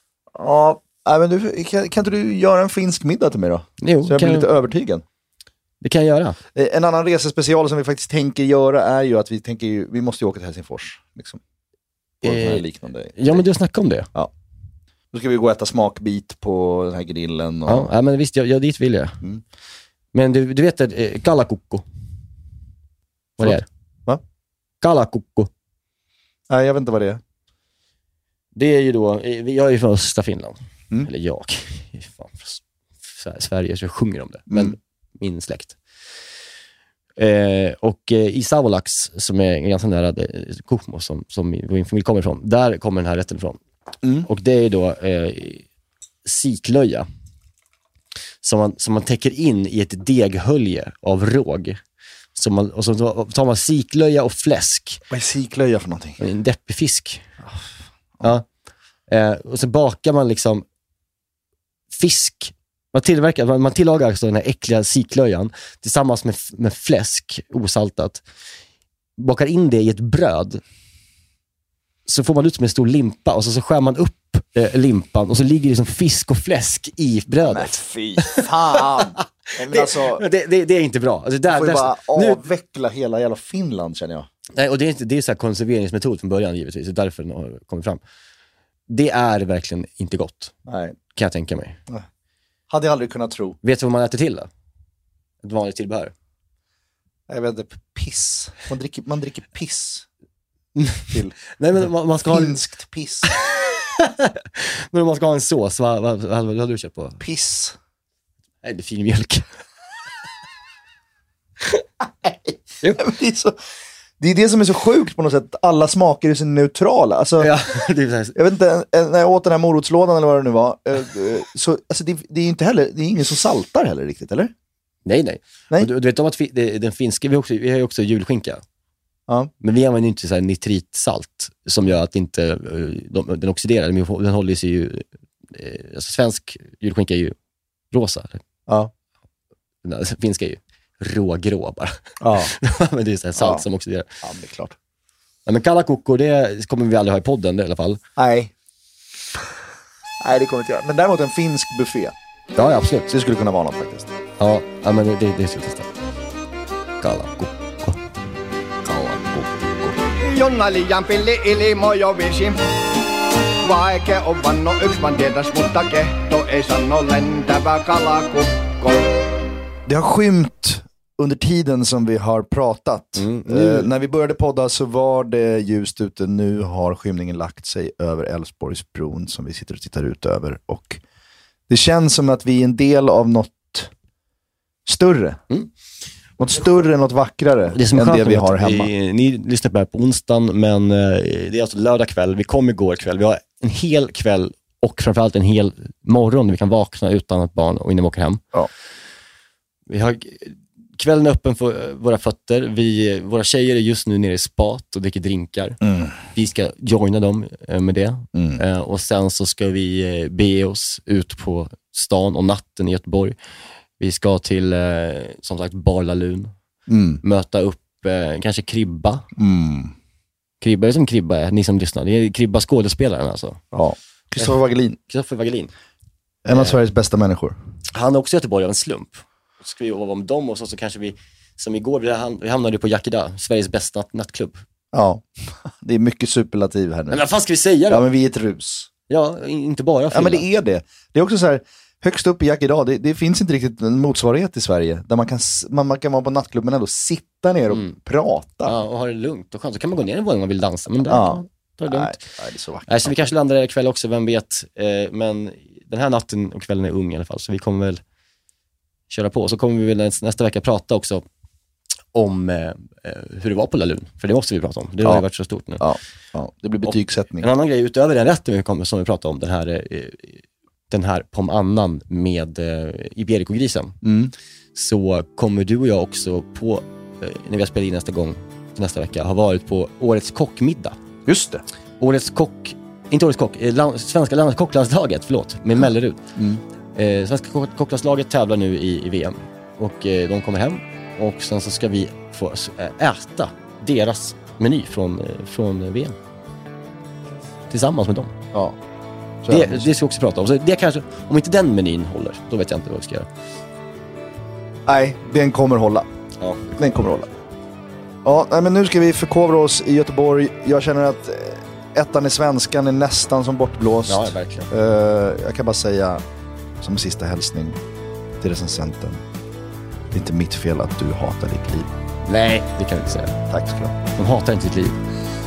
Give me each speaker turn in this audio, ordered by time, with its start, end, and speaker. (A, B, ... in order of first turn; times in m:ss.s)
0:00.3-0:05.0 A
0:03.8-0:04.5 B
0:05.8-0:06.4 B
0:06.5-0:11.4 A
0:12.2-0:13.4 A
0:12.2-0:14.1 B
0:15.1-0:17.9 A
0:17.7-0:19.2 B
0:20.1-0:21.8 B
0:23.4-0:23.7 B
0:23.4-0:24.2 A
0:24.8-0:25.5 B
0:26.5-0:27.2 A
0:28.5-0:35.8 B
0:34.5-0:34.7 A
0:37.2-0:43.6 B
0:44.0-0:44.3 A
0:44.2-0:45.6 B
0:46.2-0:47.0 B
0:48.4-0:51.8 B
0:52.3-0:55.0 B
0:55.1-0:56.2 A
0:56.2-0:57.3 B
0:59.1-1:00.6 B
1:01.9-1:08.2 B
1:09.2-1:10.6 B
1:12.0-1:22.4 B
1:17.4-1:20.2 A
1:21.5-1:24.3 A
1:24.5-1:28.0 B
1:28.9-1:30.5 B
1:30.6-1:30.9 A
1:31.1-1:31.8 B
1:32.7-1:33.6 A
1:33.6-1:34.5 B
1:35.4-1:36.1 B
1:37.3-1:40.1 A
1:40.8-1:42.6 B
1:41.1-1:43.2 A
1:43.2-1:47.2 B
1:47.2-1:47.8 A
1:48.6-1:49.4 B
1:52.9-1:53.6 A
1:54.2-1:57.5 A
1:57.4-1:58.4 B
1:58.3-2:04.5 A
2:05.0-2:08.6 B
2:09.6-2:17.3 B
2:17.9-2:18.4 B
2:19.8-2:24.1 B
2:22.2-2:22.5 A
2:23.4-2:23.6 A
2:24.2-2:24.8 A
2:25.4-2:28.0 B
2:28.2-2:28.5 A
2:30.2-2:32.1 A
2:32.6-2:33.1 B
2:33.1-2:34.1 A
2:34.4-2:35.9 B
2:37.0-2:38.0 B
2:38.8-2:40.0 A
2:40.2-2:42.6 C
2:43.6-2:49.1 C
2:49.8-3:01.0 A
2:53.2-2:53.9 B
3:01.7-3:03.9 A
3:04.8-3:05.4 A
3:06.4-3:08.9 A
3:07.7-3:18.4 B
3:19.9-3:25.8 B
3:25.8-3:26.2 A
3:26.3-3:33.4 B
3:28.3-3:28.6 A
3:34.0-3:36.5 B
3:36.9-3:37.2 A
3:37.2-3:39.2 B
3:39.4-3:39.9 A
3:40.6-3:43.6 B
3:43.7-3:45.0 A
3:45.1-3:45.7 B
3:46.4-3:47.6 A
3:46.5-3:46.8 B
3:47.9-3:54.6 B
3:54.9-3:57.2 A
3:57.1-3:58.0 B
3:57.9-3:58.9 A
3:59.1-4:00.5 B
4:00.1-4:08.8 A
4:07.7-4:07.9 B
4:08.6-4:12.2 B
4:11.1-4:13.1 A
4:12.9-4:18.0 B
4:19.1-4:21.2 B
4:22.1-4:25.8 B
4:25.8-4:27.5 A
4:26.8-4:34.0 B
4:34.0-4:34.3 A
4:34.7-4:41.0 B
4:41.2-4:41.6 A
4:42.0-4:46.2 B
4:46.4-4:46.6 A
4:46.9-4:56.1 B
4:57.7-4:58.3 B
4:59.4-4:59.9 A
4:59.5-5:03.3 B
5:04.8-5:06.0 A
5:06.4-5:06.7 B
5:06.8-5:07.3 A
5:08.2-5:16.2 A
5:14.1-5:14.7 B
5:16.8-5:17.8 A
5:18.4-5:19.2 A
5:20.1-5:21.9 A
5:22.2-5:23.4 B
5:23.5-5:23.9 A
5:24.1-5:25.0 B